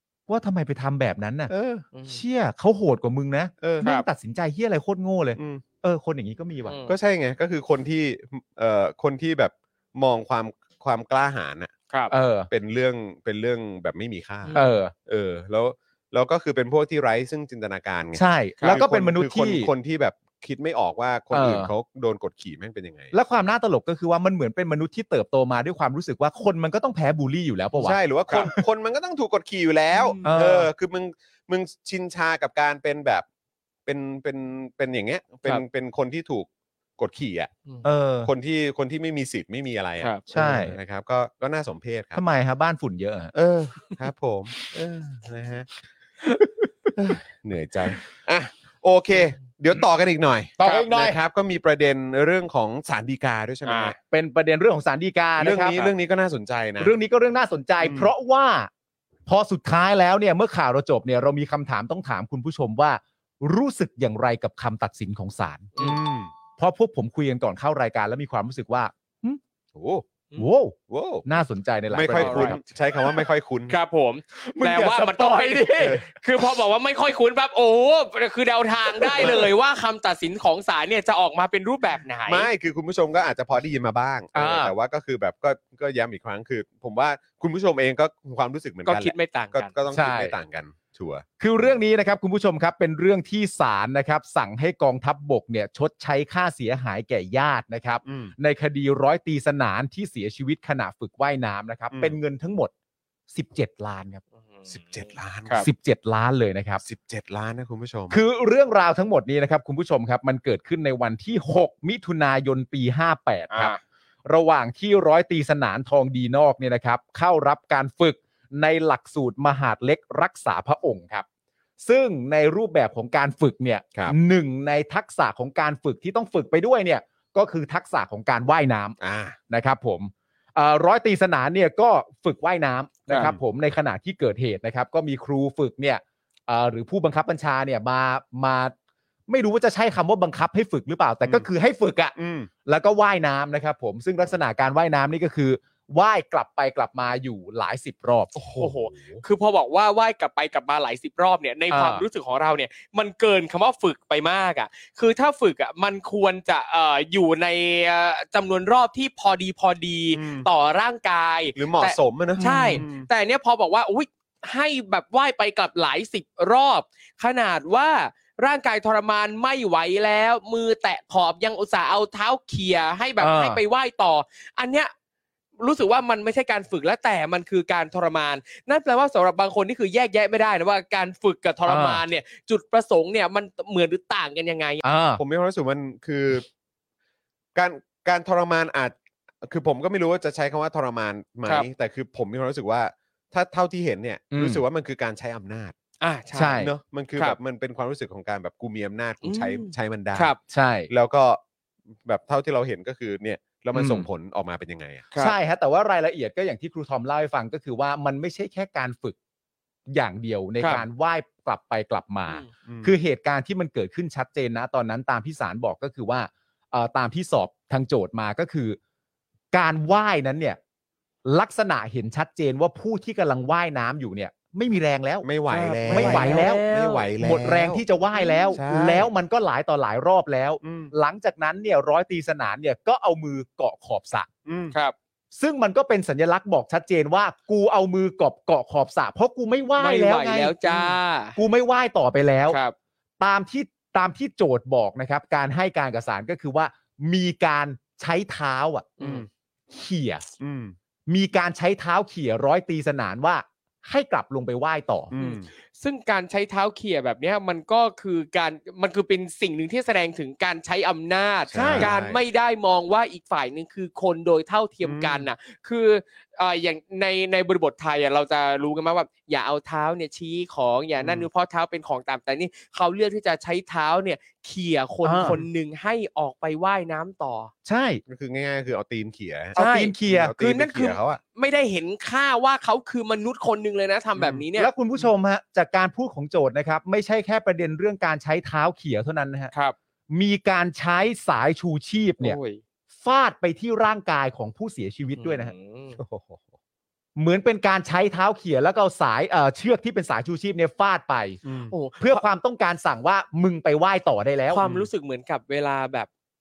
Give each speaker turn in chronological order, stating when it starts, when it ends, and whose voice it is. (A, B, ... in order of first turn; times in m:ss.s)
0:00.3-0:01.5 A
0:01.5-0:01.8 B
0:01.9-0:02.2 C
0:02.1-0:06.8 A
0:03.6-0:03.9 B
0:05.4-0:05.6 B
0:06.7-0:07.0 C
0:06.9-0:11.7 B
0:12.1-0:12.5 A
0:12.5-0:23.1 B
0:14.4-0:14.8 C
0:14.5-0:14.9 A
0:18.2-0:19.7 A
0:21.3-0:21.7 A
0:23.1-0:28.6 A
0:27.8-0:33.2 B
0:29.9-0:30.4 C
0:30.2-0:30.7 A
0:33.9-0:37.5 B
0:37.8-0:38.3 A
0:38.2-0:42.2 B
0:40.3-0:40.8 A
0:42.2-0:43.3 A
0:43.3-0:45.7 B
0:46.3-0:46.9 A
0:47.0-0:54.0 B
0:50.6-0:51.2 A
0:53.6-0:54.0 C
0:54.1-0:55.9 A
0:55.4-0:56.9 B
0:56.8-0:58.7 A
0:57.8-0:58.1 B
0:59.3-1:05.7 A
1:05.8-1:06.3 B
1:06.6-1:09.4 A
1:09.7-1:10.1 B
1:10.4-1:12.6 A
1:10.9-1:11.2 B
1:11.9-1:13.8 B
1:12.1-1:12.6 C
1:13.7-1:22.5 C
1:14.4-1:16.0 A
1:15.8-1:16.0 B
1:19.0-1:19.4 A
1:19.2-1:19.5 B
1:22.3-1:31.2 B
1:24.3-1:24.7 A
1:28.9-1:29.7 C
1:29.9-1:30.4 A
1:31.4-1:42.7 A
1:38.0-1:38.3 B
1:41.9-1:42.2 B
1:43.3-1:44.2 A
1:44.6-1:45.7 C
1:44.7-1:45.6 B
1:45.6-1:46.8 A
1:46.8-1:48.2 B
1:48.1-2:01.2 A
1:53.5-1:53.8 C
2:01.8-2:09.0 A
2:09.0-2:09.4 B
2:09.5-2:18.7 A
2:13.1-2:13.4 B
2:19.3-2:28.7 A
2:22.2-2:22.5 B
2:28.5-2:54.9 C
2:31.7-2:32.0 A
2:40.1-2:40.5 B
2:41.6-2:43.1 B
2:42.4-2:42.8 A
2:53.2-2:53.6 A
2:55.6-3:04.8 C
3:01.7-3:02.0 A
3:04.8-3:05.2 A
3:05.2-3:06.4 B
3:07.6-3:15.7 B
3:14.3-3:14.6 A
3:16.0-3:16.7 C
3:16.4-3:16.7 A
3:16.6-3:20.4 B
3:19.2-3:20.4 C
3:20.5-3:20.9 A
3:20.9-3:21.4 B
3:22.0-3:25.0 B
3:23.7-3:24.1 A
3:25.2-3:29.2 A
3:29.9-3:38.8 A
3:30.6-3:30.9 C
3:32.6-3:32.9 B
3:39.5-3:40.6 A
3:41.2-3:45.3 A
3:45.2-3:47.8 B
3:45.5-3:47.1 C
3:45.9-3:46.6 A
3:47.2-3:54.3 A
3:48.1-3:48.6 C
3:48.5-3:49.1 B
3:50.6-3:50.9 B
3:54.4-3:54.7 B
3:55.3-4:02.6 A
3:59.8-4:01.4 C
4:02.5-4:02.7 C
4:03.2-4:08.9 A
4:09.0-4:09.3 C
4:09.0-4:09.3 B
4:09.7-4:10.3 A
4:10.4-4:10.7 B
4:11.1-4:15.1 A
4:15.1-4:15.5 B
4:15.2-4:37.5 C
4:21.5-4:22.2 B
4:21.5-4:21.9 A
4:24.8-4:25.3 B
4:31.0-4:31.3 B
4:35.0-4:35.4 A
4:37.7-4:38.0 A
4:38.1-4:41.2 B
4:39.6-4:40.4 A
4:39.6-4:44.7 C
4:44.2-4:44.4 B
4:44.6-4:49.5 A
4:50.1-4:52.4 A
4:52.2-4:52.6 C
4:53.0-4:55.5 A
4:55.2-4:56.0 C
4:56.0-4:56.4 B
4:57.2-5:01.4 A
5:01.4-5:01.7 B
5:01.7-5:02.2 C
5:02.0-5:04.6 A
5:04.5-5:06.1 C
5:04.6-5:04.9 B